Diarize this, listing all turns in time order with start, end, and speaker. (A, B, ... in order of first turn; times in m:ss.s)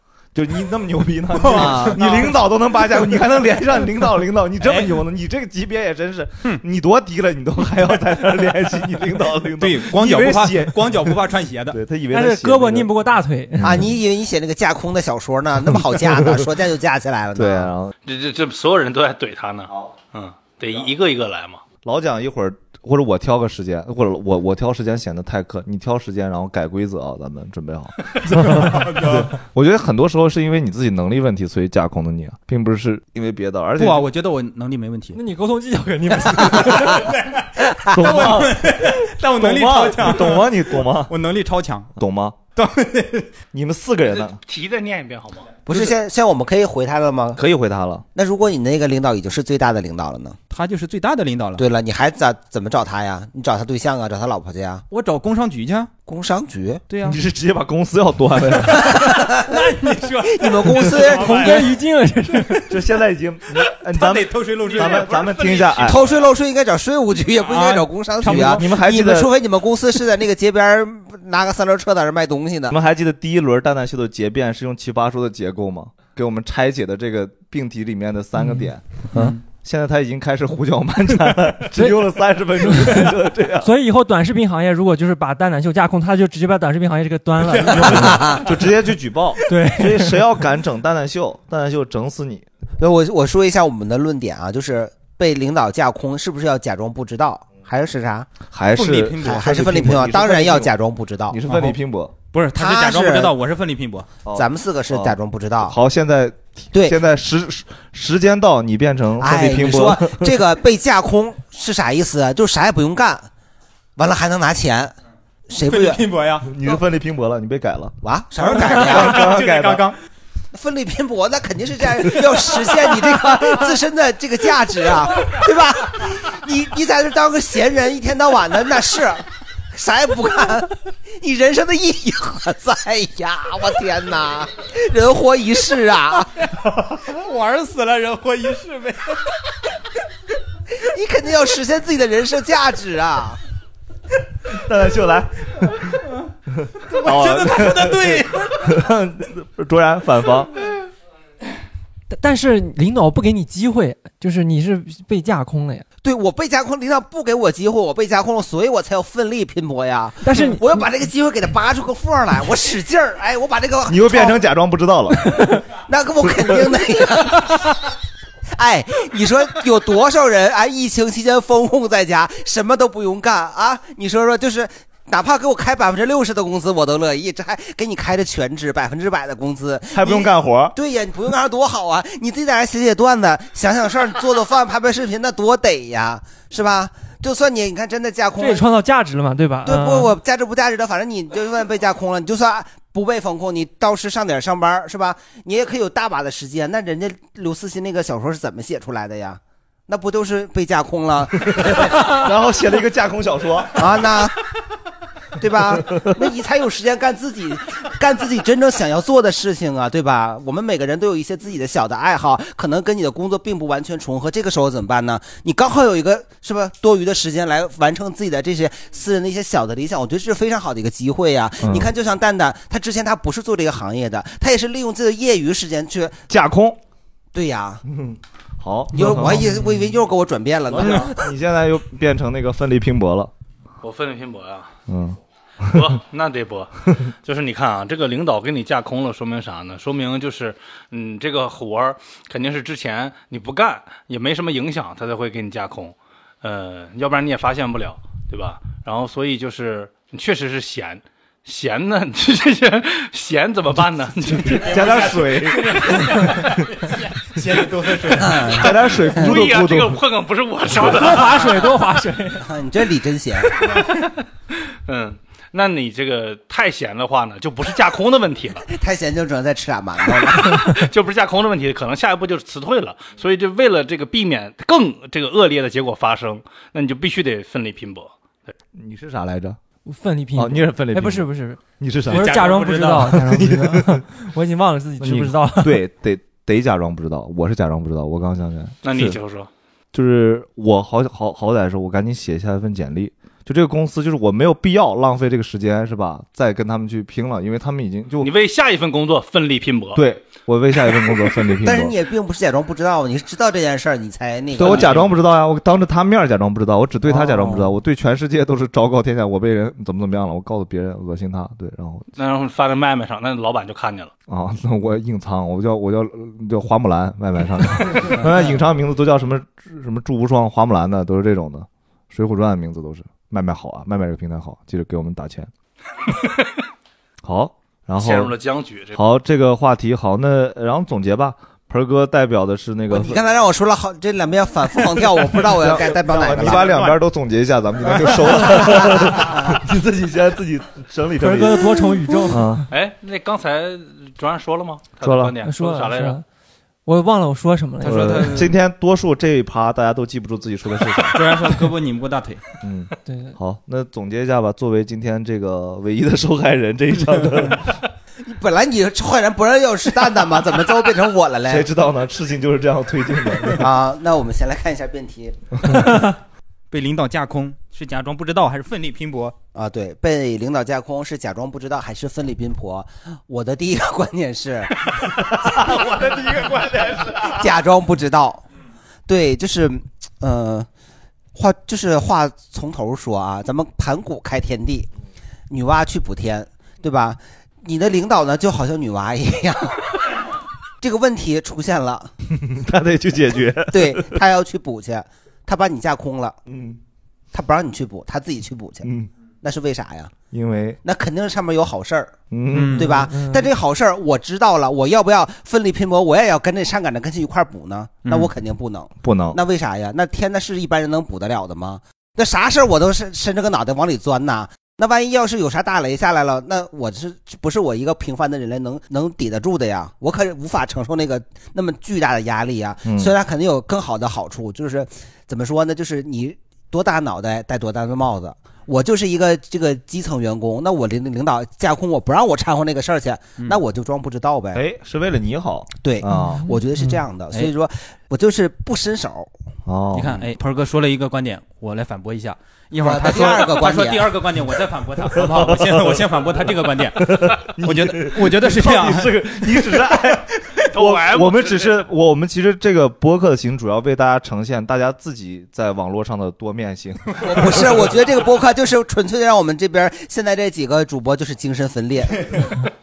0:00.3-0:12.9 A
0:01.4-0:02.1 B
0:01.5-0:02.0 C
0:04.6-0:05.0 B
0:09.6-0:11.8 B
0:12.1-0:13.8 D
0:13.6-0:13.9 A
0:13.6-0:17.7 C
0:15.7-0:16.5 A
0:17.4-0:17.9 A
0:18.0-0:21.6 E
0:21.8-0:34.1 A
0:28.4-0:29.3 B
0:33.8-0:35.2 B
0:35.1-0:37.1 D
0:36.4-0:41.9 B
0:37.6-0:38.3 C
0:37.9-0:41.1 A
0:42.0-0:42.4 A
0:42.6-0:43.3 B
0:43.5-0:44.4 A
0:44.1-0:45.6 E
0:45.6-0:47.4 C
0:45.7-0:46.0 B
0:47.4-0:48.0 A
0:48.1-0:50.4 C
0:50.5-0:51.6 B
0:51.6-0:54.8 C
0:54.9-0:55.9 B
0:56.1-0:56.8 C
0:56.9-0:57.2 B
0:57.0-0:59.0 A
0:58.7-0:59.7 C
0:58.7-1:01.8 B
1:00.2-1:01.7 C
1:01.1-1:02.7 D
1:02.7-1:06.0 A
1:03.5-1:06.2 B
1:05.8-1:12.8 C
1:07.4-1:08.7 B
1:08.2-1:09.3 A
1:12.7-1:23.7 A
1:19.1-1:19.4 B
1:22.6-1:28.3 D
1:27.4-1:28.6 B
1:27.8-1:32.4 A
1:28.0-1:28.5 C
1:29.4-1:29.7 B
1:29.5-1:30.2 D
1:32.8-1:38.3 C
1:38.5-1:40.7 A
1:38.7-1:40.5 B
1:39.2-1:41.4 C
1:41.3-1:42.1 A
1:42.3-1:44.1 B
1:42.6-1:43.3 C
1:44.2-1:50.4 A
1:44.3-1:45.8 C
1:49.2-1:53.3 C
1:54.0-1:54.9 C
1:55.5-1:56.0 C
1:55.6-1:56.5 B
1:56.4-1:58.0 A
1:58.0-1:59.3 C
1:58.4-2:00.0 B
1:58.5-1:59.8 A
2:00.5-2:16.3 C
2:02.1-2:03.7 B
2:16.4-2:19.4 B
2:20.7-2:23.4 C
2:24.5-2:30.5 A
2:26.8-2:28.7 B
2:32.1-2:35.8 D
2:36.0-2:44.4 C
2:40.2-2:40.6 D
2:43.9-2:45.2 A
2:45.2-2:45.6 D
2:45.7-2:47.9 C
2:48.5-3:08.6 C
2:59.9-3:00.8 A
3:08.4-3:10.1 D
3:09.6-3:22.2 C
3:21.5-3:24.0 A
3:23.7-3:24.4 C
3:25.4-3:46.2 C
3:41.6-3:41.9 A
3:46.3-3:46.8 A
3:47.3-3:47.8 C
3:47.8-3:49.6 A
3:48.9-3:51.2 C
3:50.7-3:53.3 A
3:50.8-3:51.1 B
3:53.8-3:54.7 E
3:54.9-3:55.9 A
3:55.6-4:14.9 E
4:14.4-4:18.7 B
4:14.4-4:16.6 A
4:18.1-4:19.4 C
4:18.5-4:20.0 A
4:18.6-4:21.6 E
4:20.8-4:22.5 D
4:22.4-4:23.8 C
4:23.7-4:24.2 E
4:24.8-4:28.7 E
4:28.7-4:30.8 C
4:30.2-4:38.5 E
4:38.7-4:39.6 A
4:39.8-4:45.8 D
4:40.3-4:41.3 A
4:41.8-4:44.0 A
4:42.1-4:43.1 B
4:45.0-4:49.2 A
4:48.8-4:49.5 E
4:49.9-4:58.3 A
4:58.2-5:00.0 E
4:59.9-5:01.9 A
5:01.6-5:05.1 C
5:04.5-5:12.1 A
5:04.6-5:05.0 E
5:12.2-5:14.1 E
5:14.3-5:25.5 A
5:26.1-5:26.5 E
5:27.2-5:28.3 A
5:28.0-5:29.0 E
5:28.9-5:33.2 A
5:32.9-5:36.7 C
5:35.4-5:42.6 A
5:36.1-5:37.0 B
5:37.9-5:39.0 B
5:41.2-5:42.6 D
5:42.7-5:46.2 E
5:45.0-5:45.4 A
5:45.4-5:46.2 D
5:46.8-5:48.4 D
5:47.8-5:48.6 B
5:47.8-5:51.4 A
5:51.1-5:52.4 B
5:52.6-5:57.7 A
5:53.1-5:53.3 D
5:58.2-6:01.7 C
6:01.5-6:03.7 A
6:03.6-6:05.9 C
6:06.7-6:09.3 B
6:09.5-6:15.8 C
6:15.0-6:17.5 A
6:17.2-6:18.4 C
6:19.1-6:20.7 C
6:21.3-6:24.9 C
6:25.5-6:30.2 C
6:30.8-6:32.1 C
6:32.3-6:34.2 A
6:33.7-6:36.4 C
6:36.5-6:36.8 A
6:37.3-6:38.9 C
6:38.8-6:39.1 A
6:39.4-6:40.1 C
6:40.3-6:40.8 A
6:40.8-6:42.2 C
6:42.3-6:43.0 A
6:42.5-6:42.9 B
6:42.7-7:14.6 C
6:42.9-6:43.5 D
6:48.0-6:48.3 B
6:49.0-6:49.4 A
7:02.8-7:03.1 A
7:14.5-7:16.5 A
7:15.8-7:19.3 C
7:19.6-7:20.2 A
7:19.9-7:30.0 B
7:22.8-7:24.2 C
7:25.1-7:38.0 A
7:30.7-7:31.8 E
7:37.2-7:42.6 C